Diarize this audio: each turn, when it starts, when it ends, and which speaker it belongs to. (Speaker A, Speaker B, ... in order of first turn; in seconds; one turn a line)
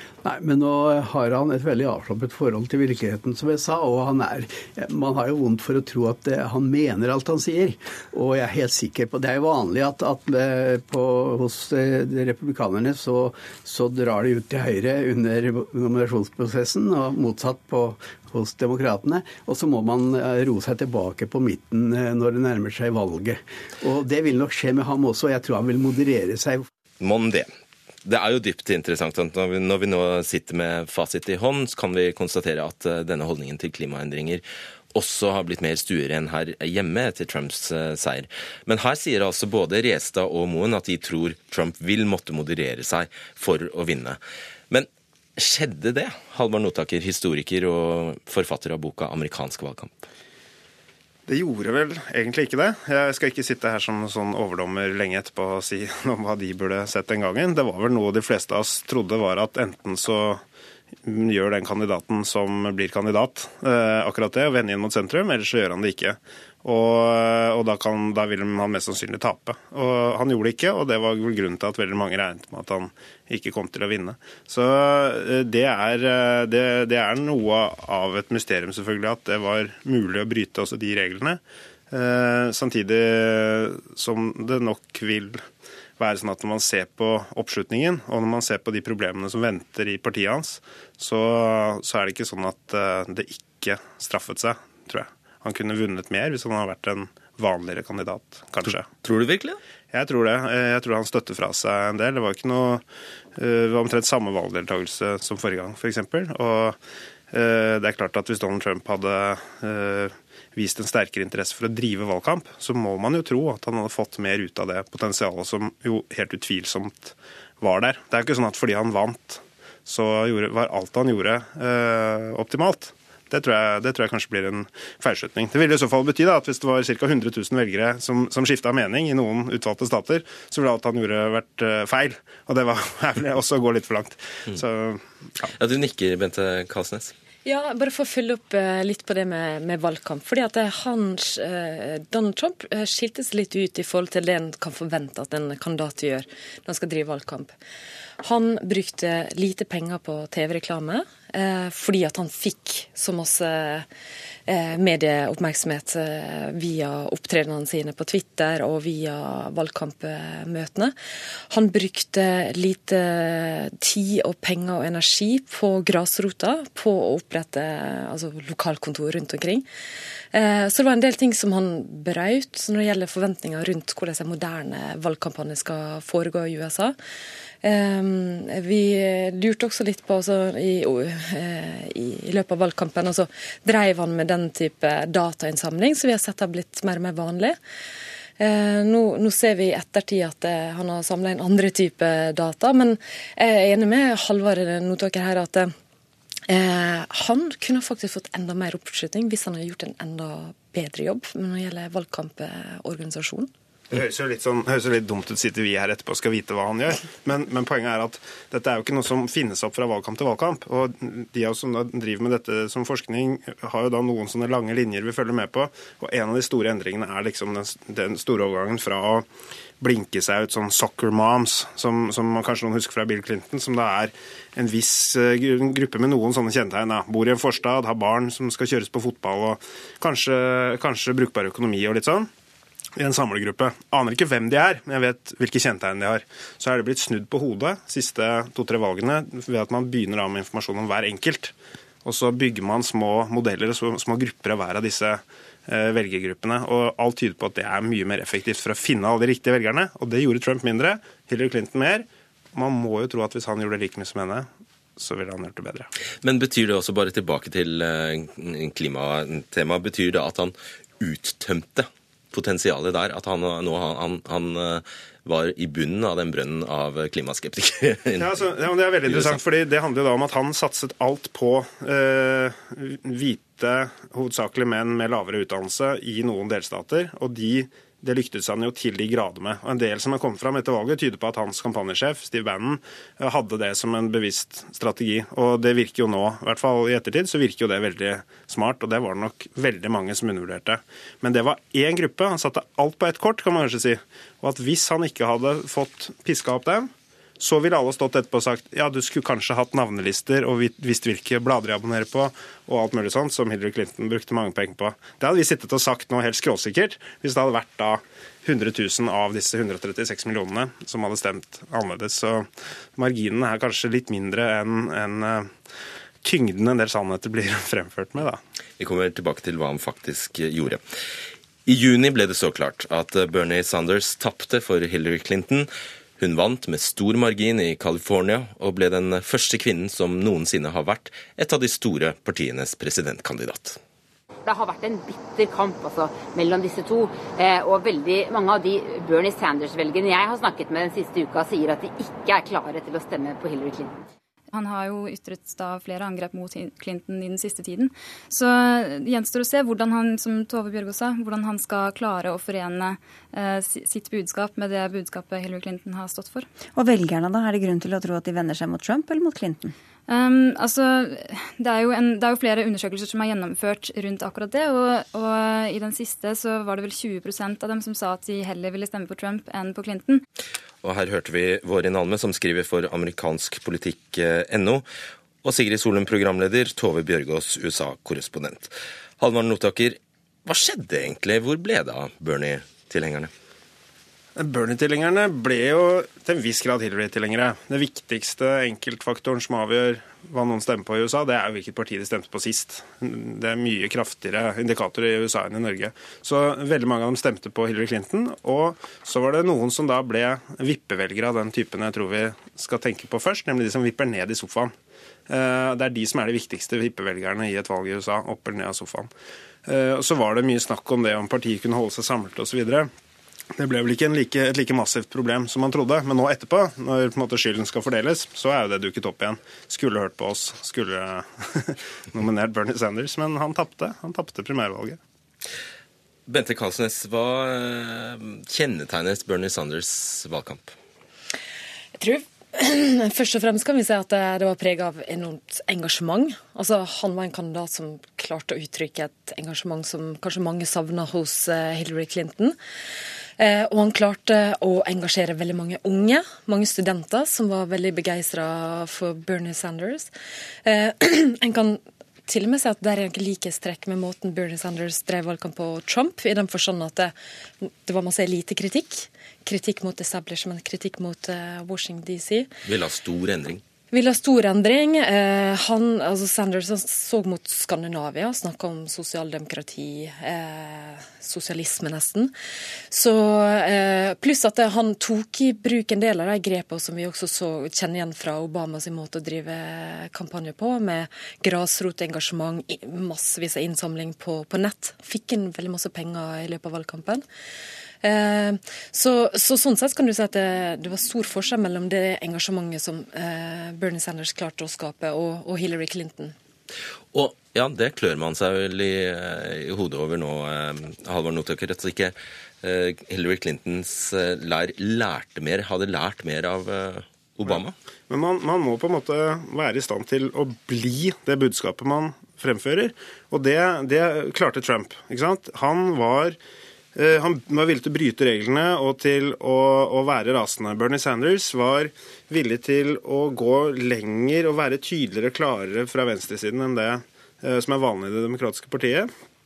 Speaker A: 0.2-26.7
Speaker B: 27.0-27.5
Speaker B: 28.1-50.1
Speaker C: 51.3-60.4
Speaker C: 61.0-81.4
Speaker C: 81.9-85.4
Speaker C: 86.0-98.9
Speaker B: 99.0-99.6
Speaker C: 99.9-102.8
Speaker C: 103.4-106.8
Speaker C: 107.3-135.5
Speaker B: 135.5-137.1
Speaker D: 137.4-147.5
Speaker D: 148.2-153.9
Speaker D: 154.5-160.9
Speaker D: 161.5-169.7
Speaker D: 170.3-176.9
Speaker D: 177.6-187.6
Speaker D: 188.4-195.7
Speaker D: 196.5-203.5
Speaker C: 203.9-219.2
Speaker C: 219.8-232.3
Speaker C: 233.0-255.9
Speaker B: 256.2-268.3
Speaker C: 268.2-315.5
Speaker B: 269.1-269.4
Speaker C: 316.2-318.4
Speaker B: 318.8-320.8
Speaker B: 321.7-333.8
Speaker E: 334.4-344.0
Speaker F: 344.5-356.5
Speaker G: 356.8-359.7
Speaker F: 360.1-370.2
Speaker B: 370.8-374.9
Speaker B: 375.4-383.3
Speaker C: 384.4-404.7
Speaker C: 405.3-409.1
Speaker C: 409.7-412.9
Speaker C: 413.6-425.0
Speaker B: 426.3-430.8
Speaker D: 432.0-442.6
Speaker D: 443.4-450.1
Speaker D: 450.6-462.5
Speaker B: 462.6-463.6
Speaker D: 463.9-472.3
Speaker D: 472.9-487.2
Speaker D: 488.0-496.4
Speaker B: 497.1-507.8
Speaker C: 508.1-516.4
Speaker C: 517.0-529.1